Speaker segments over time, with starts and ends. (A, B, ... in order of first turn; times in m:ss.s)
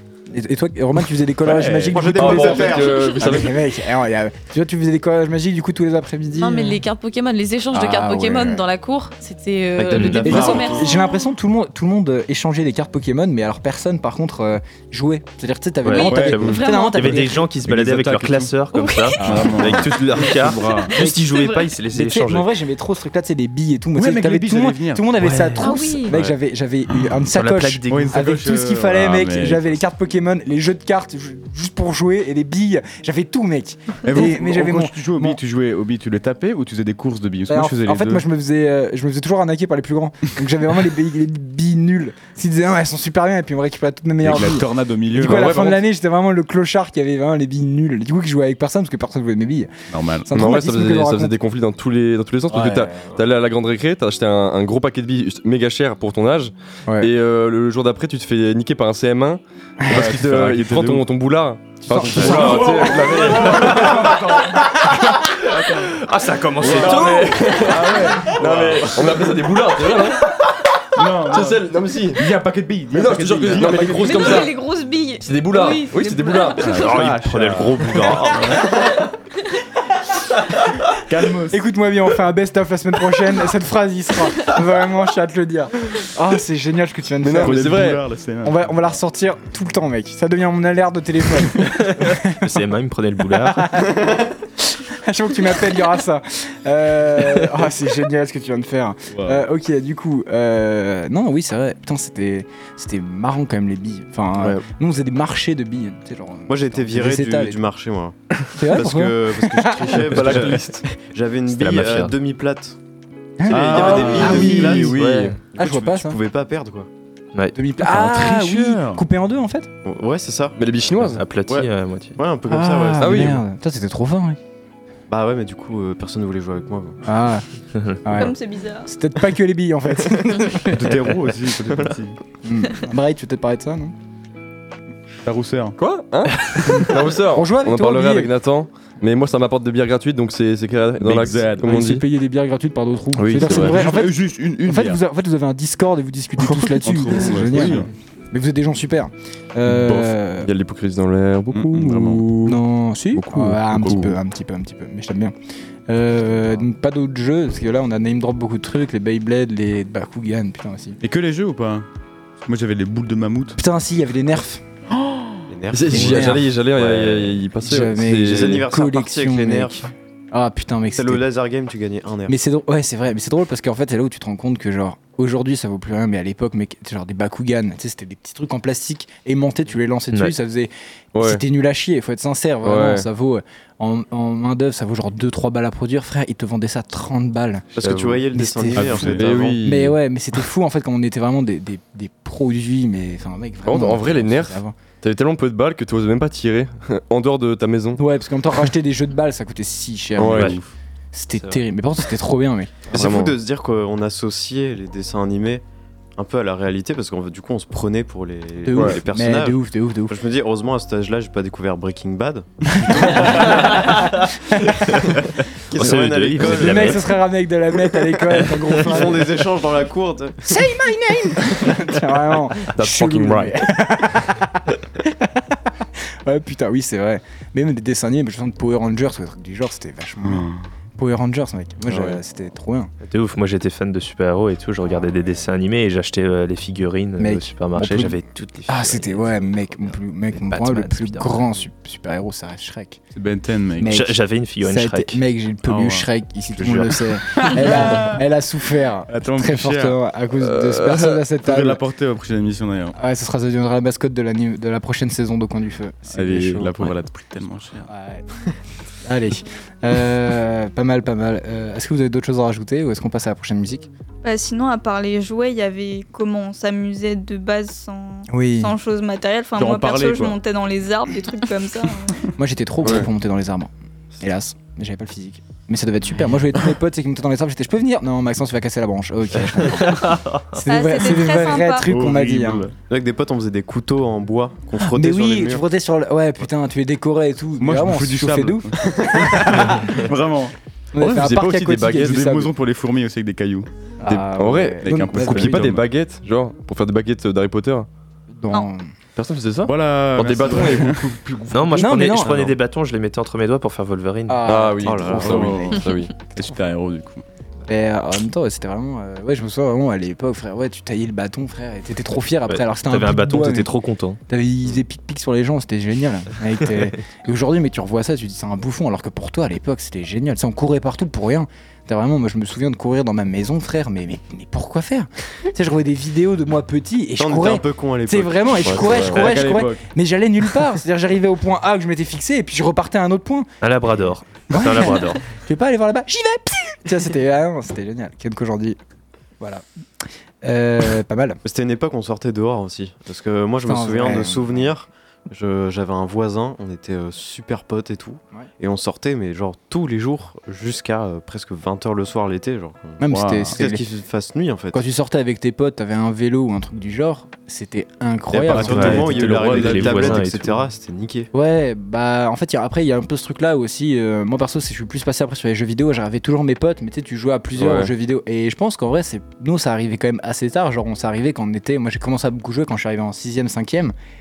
0:00.3-0:06.8 A
0:01.4-0:02.8 B
0:01.9-0:03.2 C
0:02.1-0:03.6 D
0:06.4-0:11.2 E
0:07.7-0:08.7 A
0:09.8-0:11.0 C
0:10.2-0:17.5 A
0:15.8-0:22.5 F
0:15.9-0:17.2 E
0:16.0-0:16.6 B
0:17.6-0:18.5 B
0:18.7-0:20.4 E
0:19.2-0:21.0 B
0:20.9-0:21.7 E
0:21.0-0:21.2 A
0:21.9-0:35.4 A
0:23.9-0:25.4 B
0:25.2-0:25.9 F
0:25.6-0:26.2 E
0:27.3-0:28.2 F
0:27.9-0:29.8 B
0:34.0-0:38.2 B
0:37.5-0:49.8 A
0:44.2-0:45.8 B
0:49.9-0:50.3 B
0:50.3-0:51.4 A
0:50.3-1:04.2 D
0:52.5-0:52.8 A
0:59.9-1:01.1 B
1:01.9-1:03.1 A
1:01.9-1:04.7 B
1:04.0-1:04.2 F
1:05.2-1:08.0 F
1:05.5-1:05.9 B
1:06.6-1:09.4 B
1:07.0-1:10.4 D
1:11.0-1:14.5 B
1:11.3-1:12.3 D
1:12.9-1:14.6 D
1:13.8-1:16.6 G
1:14.3-1:14.6 E
1:15.2-1:16.8 D
1:15.5-1:16.6 E
1:16.6-1:18.7 B
1:16.7-1:18.9 F
1:21.0-1:21.6 B
1:21.5-1:27.7 A
1:27.2-1:28.0 D
1:27.3-1:28.8 B
1:28.4-1:32.6 A
1:32.4-1:33.9 F
1:33.4-1:34.1 A
1:34.8-1:47.6 A
1:39.1-1:39.4 B
1:46.5-1:52.8 C
1:48.5-1:50.1 A
1:50.0-1:50.8 B
1:51.5-1:52.2 F
1:53.4-1:55.0 A
1:53.5-1:56.9 C
1:53.5-1:54.7 B
1:53.8-1:55.4 D
1:54.9-1:55.4 F
1:55.6-1:56.2 A
1:57.5-1:59.7 A
1:57.8-1:59.0 B
1:59.8-2:00.6 C
2:00.6-2:01.2 D
2:01.0-2:02.2 F
2:01.4-2:03.4 C
2:02.5-2:04.4 A
2:03.0-2:03.4 D
2:05.1-2:07.0 C
2:07.0-2:07.5 A
2:08.0-2:08.4 A
2:08.2-2:08.9 G
2:08.9-2:10.8 A
2:10.7-2:12.2 B
2:10.8-2:12.0 C
2:12.4-2:13.9 A
2:15.2-2:15.8 B
2:15.8-2:22.0 D
2:16.7-2:18.3 A
2:21.0-2:21.9 B
2:21.6-2:30.5 A
2:23.2-2:23.9 D
2:23.3-2:25.0 B
2:26.8-2:27.9 B
2:27.0-2:27.8 D
2:29.7-2:32.6 D
2:31.5-2:32.5 B
2:32.4-2:35.3 A
2:33.2-2:34.1 D
2:35.9-2:41.0 A
2:41.0-2:41.9 B
2:42.5-2:43.6 B
2:43.6-2:44.6 A
2:45.0-2:45.4 B
2:45.5-2:47.4 C
2:45.7-2:48.7 D
2:45.9-2:46.4 A
2:47.6-2:51.2 A
2:48.3-2:49.8 C
2:50.9-2:52.4 C
2:52.3-3:14.8 A
3:01.1-3:01.4 D
3:02.6-3:03.1 D
3:07.8-3:09.6 C
3:08.8-3:09.5 B
3:09.1-3:10.0 D
3:13.6-3:18.0 D
3:18.0-3:23.0 A
3:20.2-3:20.6 D
3:20.4-3:20.7 B
3:22.9-3:23.4 D
3:22.9-3:25.6 C
3:26.2-3:33.6 C
3:28.6-3:30.2 A
3:28.7-3:29.0 D
3:32.8-3:33.8 A
3:34.5-3:35.1 A
3:35.7-3:37.0 C
3:35.7-3:37.2 F
3:36.4-3:39.4 A
3:38.8-3:40.7 C
3:40.4-3:45.4 A
3:42.8-3:43.6 D
3:46.2-3:52.9 A
3:50.2-3:50.6 B
3:53.0-4:01.6 F
3:57.2-4:03.0 A
4:03.1-4:04.0 B
4:03.8-4:11.8 A
4:03.9-4:05.2 F
4:05.6-4:06.1 B
4:06.6-4:07.0 F
4:09.1-4:10.0 B
4:11.4-4:13.0 B
4:13.0-4:16.9 A
4:16.1-4:17.9 B
4:17.9-4:18.3 A
4:19.0-4:23.9 A
4:24.2-4:32.2 G
4:28.3-4:28.7 A
4:29.6-4:30.4 B
4:32.4-4:42.6 A
4:39.8-4:40.4 F
4:40.6-4:41.9 G
4:41.8-4:42.8 B
4:42.9-4:45.7 C
4:44.8-4:50.0 A
4:47.6-4:54.2 B
4:50.9-4:52.5 A
4:51.3-4:52.0 D
4:54.0-4:55.7 A
4:54.1-4:57.9 D
4:54.8-4:55.9 B
4:58.3-4:58.9 A
4:59.2-5:01.6 D
4:59.6-5:01.3 B
5:01.5-5:04.6 F
5:01.7-5:02.5 A
5:04.3-5:05.8 A
5:04.5-5:06.2 D
5:04.8-5:05.5 C
5:05.1-5:07.2 B
5:07.7-5:13.7 A
5:12.5-5:14.2 F
5:14.3-5:33.5 A
5:27.2-5:29.2 C
5:29.1-5:29.8 B
5:33.6-5:35.2 F
5:34.5-5:38.8 A
5:40.4-5:41.4 A
5:41.4-5:54.8 C
5:43.6-5:44.7 A
5:53.0-5:53.8 A
5:53.1-5:53.6 B
5:54.7-5:59.2 A
5:58.3-6:01.3 C
5:58.5-6:00.3 B
5:58.7-6:00.6 F
6:01.3-6:13.9 A
6:07.6-6:07.9 D